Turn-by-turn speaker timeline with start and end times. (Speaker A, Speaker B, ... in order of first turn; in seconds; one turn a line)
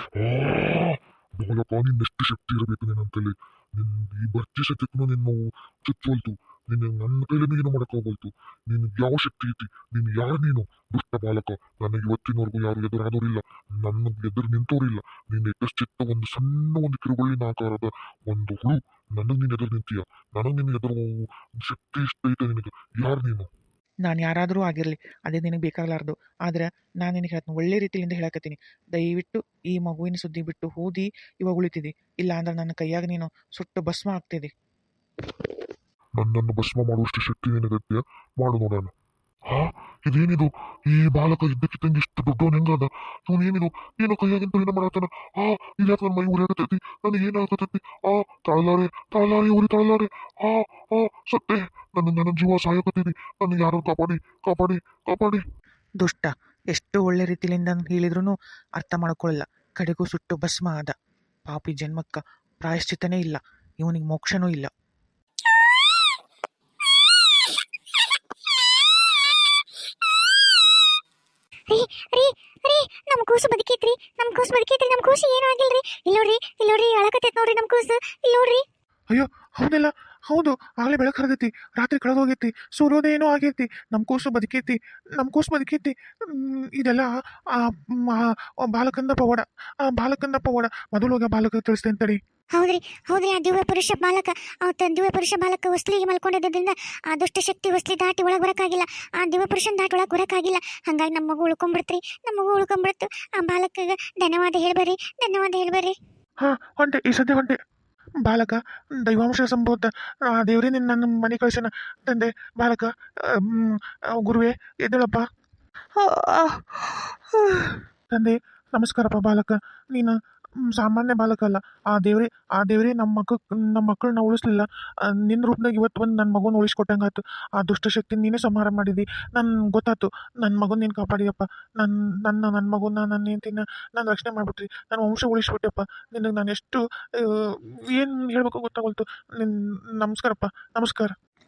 Speaker A: 0.1-23.5
Speaker B: 24.0-34.5
Speaker A: 36.2-38.9
Speaker A: 39.5-55.4
Speaker B: 56.0-60.9
Speaker B: 61.5-64.7
Speaker C: 71.7-78.6
Speaker D: 79.1-92.2
Speaker C: 92.5-106.0
Speaker D: 106.4-107.6
Speaker D: 108.2-115.3
Speaker B: 116.0-117.8
Speaker D: 118.1-141.1